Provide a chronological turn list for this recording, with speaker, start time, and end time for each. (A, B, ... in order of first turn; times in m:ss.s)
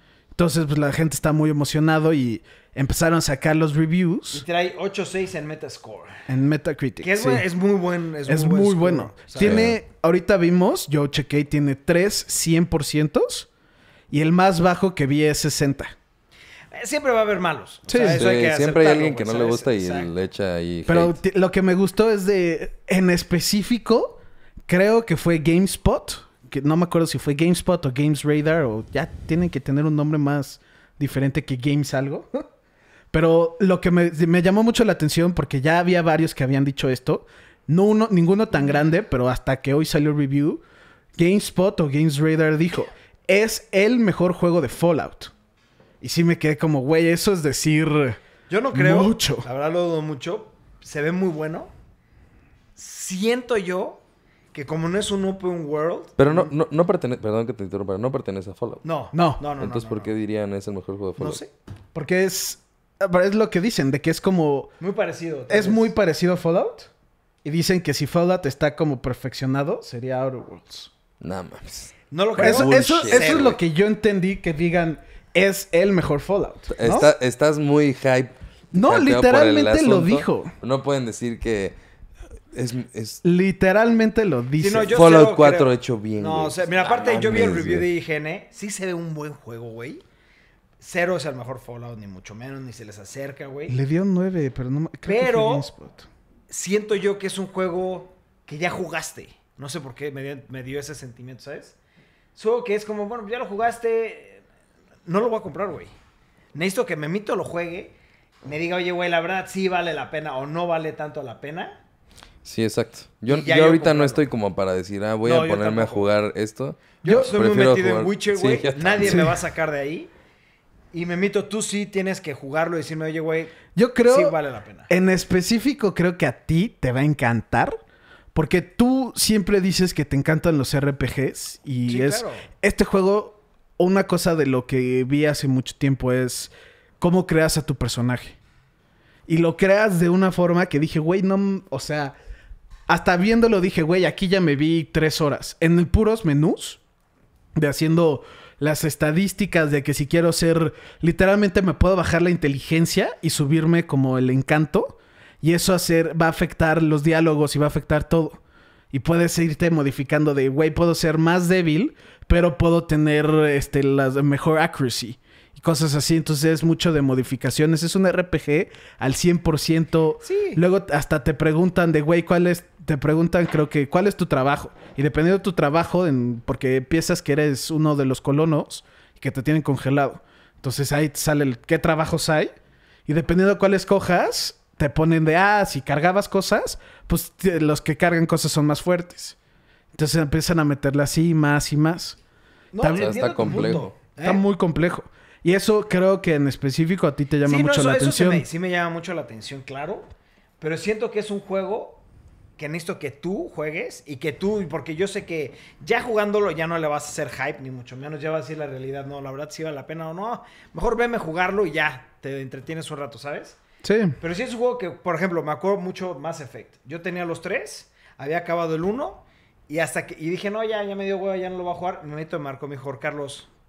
0:00.4-0:04.4 A
0:04.3-0:06.3 B
0:06.3-0:07.5 A
0:07.0-0:09.6 B
0:08.3-0:13.5 A
0:09.4-0:09.8 C
0:14.1-0:15.9 A
0:16.7-0:20.1 B
0:17.9-0:18.2 A
0:18.1-0:21.2 C
0:20.9-0:32.4 A
0:33.1-0:40.6 A
0:41.2-0:45.3 A
0:46.0-0:48.2 A
0:48.5-0:51.7 B
0:48.7-0:49.5 A
0:52.8-0:54.0 B
0:54.5-0:56.5 B
0:56.2-0:58.8 C
0:58.8-1:00.1 B
0:59.1-0:59.4 A
0:59.6-1:01.4 C
1:01.2-1:01.5 B
1:02.0-1:04.7 A
1:04.8-1:05.9 B
1:05.5-1:06.9 A
1:07.4-1:10.9 A
1:11.2-1:13.6 C
1:12.1-1:13.5 B
1:12.4-1:17.1 A
1:16.7-1:21.8 C
1:18.7-1:20.5 A
1:22.5-1:23.2 C
1:23.2-1:25.0 A
1:24.6-1:30.0 B
1:24.9-1:27.9 C
1:30.8-1:33.8 B
1:33.7-1:36.1 A
1:35.0-1:35.7 B
1:36.5-1:41.8 B
1:42.4-1:44.4 B
1:45.1-1:45.9 B
1:46.5-1:51.8 B
1:52.4-1:59.3 C
1:53.3-1:54.3 B
1:55.2-1:56.1 B
1:57.0-2:00.1 B
1:59.0-1:59.4 A
2:00.9-2:04.9 B
2:03.8-2:04.4 A
2:04.9-2:07.8 A
2:08.3-2:18.4 A
2:11.9-2:12.5 B
2:19.3-2:22.2 A
2:22.9-2:26.8 A
2:27.6-2:38.4 A
2:38.9-3:02.5 A
2:50.2-2:50.6 B
3:03.1-3:09.4 A
3:09.9-3:12.2 A
3:12.7-3:14.4 B
3:12.8-3:18.4 A
3:12.9-3:13.9 C
3:17.4-3:22.0 B
3:22.6-3:33.6 B
3:33.8-3:34.2 A
3:34.2-3:43.5 B